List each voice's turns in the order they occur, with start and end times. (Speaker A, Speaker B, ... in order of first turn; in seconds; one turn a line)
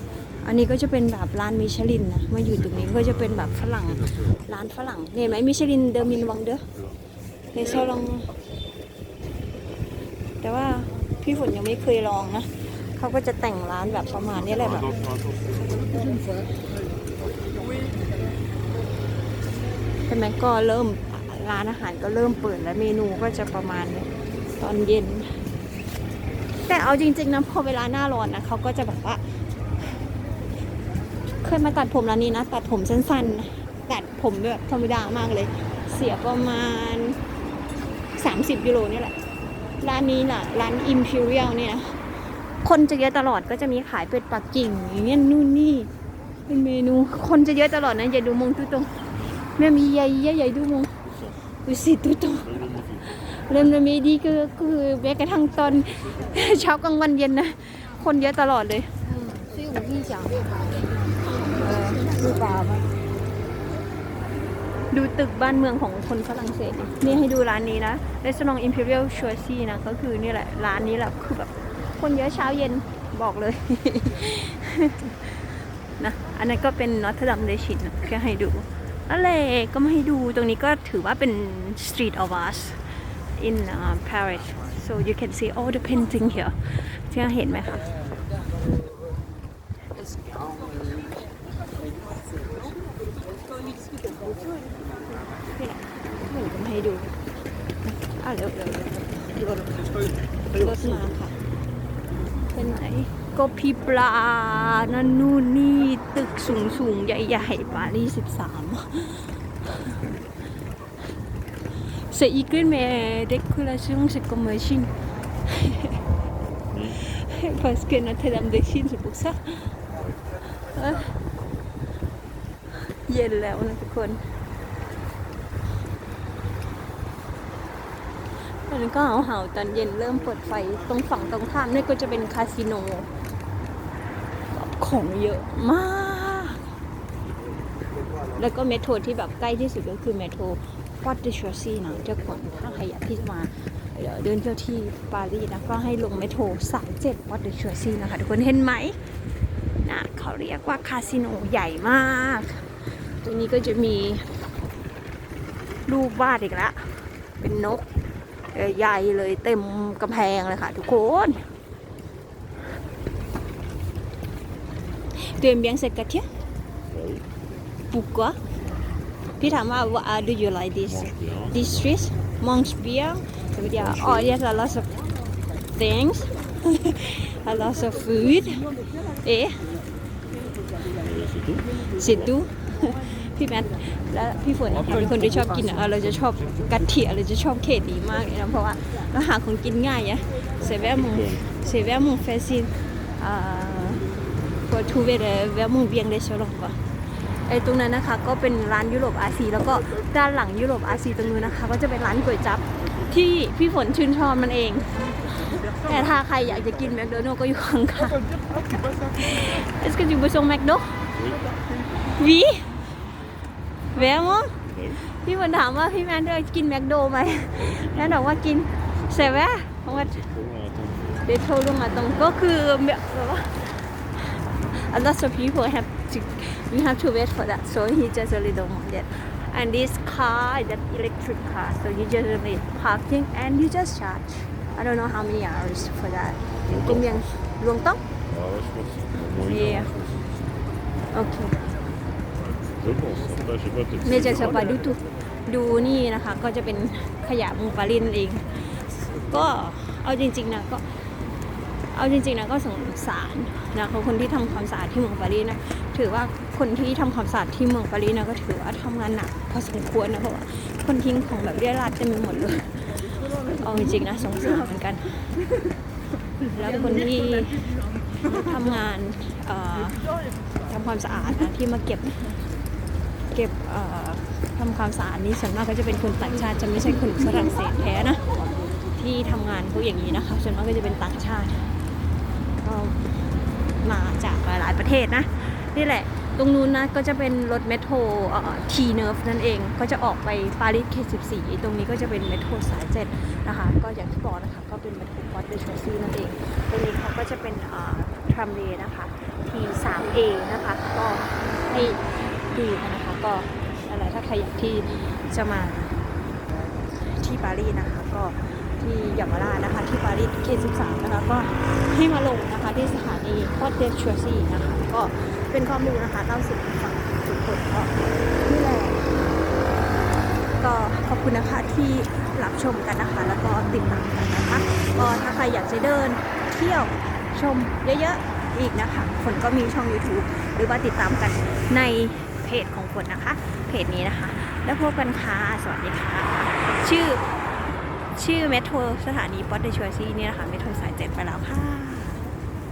Speaker A: 0.4-6.7
Speaker B: 2.6-4.5
Speaker B: 6.7-7.0
Speaker A: 7.5-8.3
Speaker A: 10.4-14.9
Speaker B: 14.6-16.0
Speaker B: 17.1-17.6
Speaker A: 20.1-25.4
Speaker A: 26.6-29.2
Speaker A: 31.4-37.2
Speaker A: 38.1-39.2
Speaker A: 39.8-42.0
Speaker A: 42.6-45.9
Speaker A: 46.5-49.0
Speaker A: 49.6-51.0
Speaker A: 51.6-52.5
Speaker B: 52.4-53.2
Speaker A: 53.0-62.8
Speaker A: 64.9-75.4
Speaker A: 76.0-82.8
Speaker A: 83.4-87.9
Speaker A: 95.4-97.2
Speaker A: 97.8-101.4
Speaker A: 102.5-110.0
Speaker A: 112.1-116.0
Speaker B: 116.7-117.0
Speaker A: 116.9-119.7
Speaker B: 119.9-120.3
Speaker A: 120.6-121.2
Speaker A: 122.9-124.3
Speaker A: 128.6-133.1
Speaker A: 134.5-136.7
Speaker A: 138.4-149.0
Speaker A: 149.8-154.4
Speaker A: 155.9-157.9
Speaker A: 158.5-161.5
Speaker A: 165.2-166.3
Speaker B: 166.9-167.3
Speaker A: 167.9-168.4
Speaker A: 169.4-175.0
Speaker B: 170.9-171.8
Speaker B: 173.9-174.3
Speaker A: 175.6-179.7
Speaker B: 181.0-181.8
Speaker A: 181.8-194.1
Speaker B: 190.6-191.4
Speaker A: 194.6-211.0
Speaker B: 211.1-211.6
Speaker A: 212.0-212.8
Speaker A: 213.9-220.1
Speaker B: 214.6-215.0
Speaker B: 217.5-221.3
Speaker A: 221.2-238.0
Speaker B: 236.7-237.1
Speaker B: 238.3-240.3
Speaker A: 239.4-239.9
Speaker A: 241.1-241.6
Speaker B: 242.7-244.7
Speaker A: 244.0-250.9
Speaker A: 251.9-265.4
Speaker A: 266.4-272.4
Speaker A: 273.3-278.3
Speaker A: 278.9-281.7
Speaker A: 282.6-283.1
Speaker A: 283.8-306.0
Speaker A: 306.9-319.3
Speaker A: 320.5-337.3
Speaker A: 338.1-342.2